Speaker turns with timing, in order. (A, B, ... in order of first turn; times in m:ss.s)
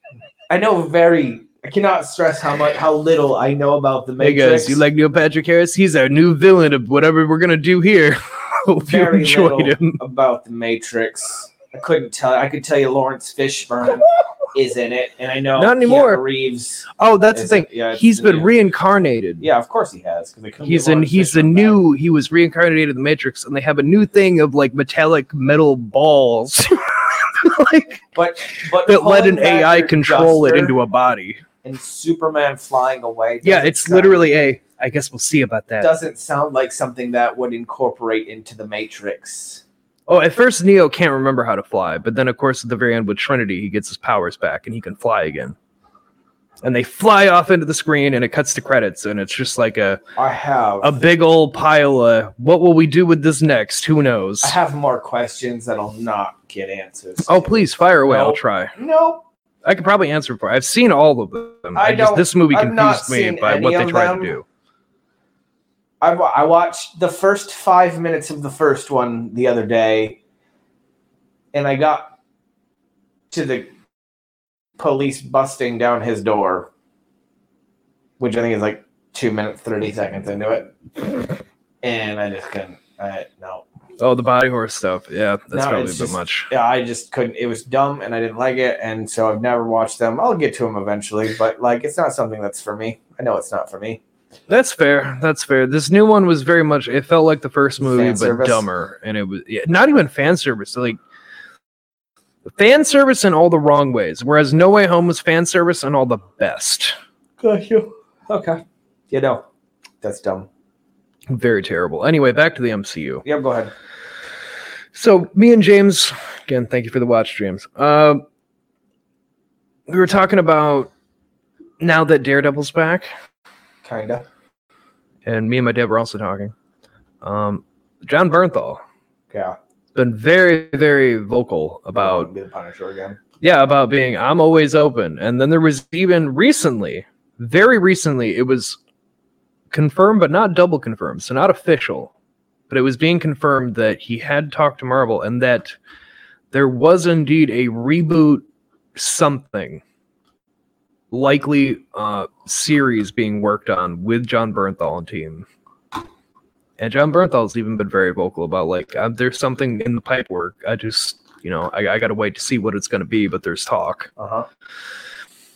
0:00.5-0:04.8 A
0:04.2-0:10.0 B
0:08.8-0:18.5 A
0:15.6-0:16.2 B
0:17.0-0:19.5 B
0:19.4-0:21.8 A
0:20.6-0:28.0 B
0:28.1-0:30.7 A
0:28.8-0:31.4 B
0:31.6-0:34.2 A
0:33.4-0:35.9 B
0:35.8-0:39.6 A
0:40.1-0:45.6 B
0:46.6-0:50.0 B
0:50.2-0:51.0 A
0:50.8-0:54.6 B
0:54.4-0:59.2 A
0:57.2-0:58.7 B
0:59.6-1:04.4 B
1:01.7-1:04.3 A
1:06.0-1:10.2 A
1:11.5-1:12.1 A
1:13.3-1:13.8 A
1:14.8-1:16.7 A
1:18.2-1:21.2 A
1:21.8-1:23.6 A
1:24.0-1:26.5 B
1:25.5-1:34.0 A
1:34.5-1:41.0 B
1:37.8-1:38.7 A
1:42.4-1:46.9 B
1:47.4-1:49.4 A
1:50.0-1:50.5 A
1:51.3-1:53.2 B
1:53.2-1:53.7 A
1:54.9-1:58.2 B
1:59.9-2:00.9 B
2:01.8-2:03.1 B
2:03.8-2:04.2 A
2:05.2-2:06.5 B
2:07.2-2:08.8 B
2:09.3-2:09.6 A
2:09.9-2:12.3 B
2:12.0-2:13.2 A
2:13.4-2:18.8 B
2:19.7-2:22.1 B
2:22.7-2:25.8 B
2:26.5-2:29.8 B
2:31.1-2:35.5 B
2:36.8-2:44.1 B
2:44.2-2:44.4 A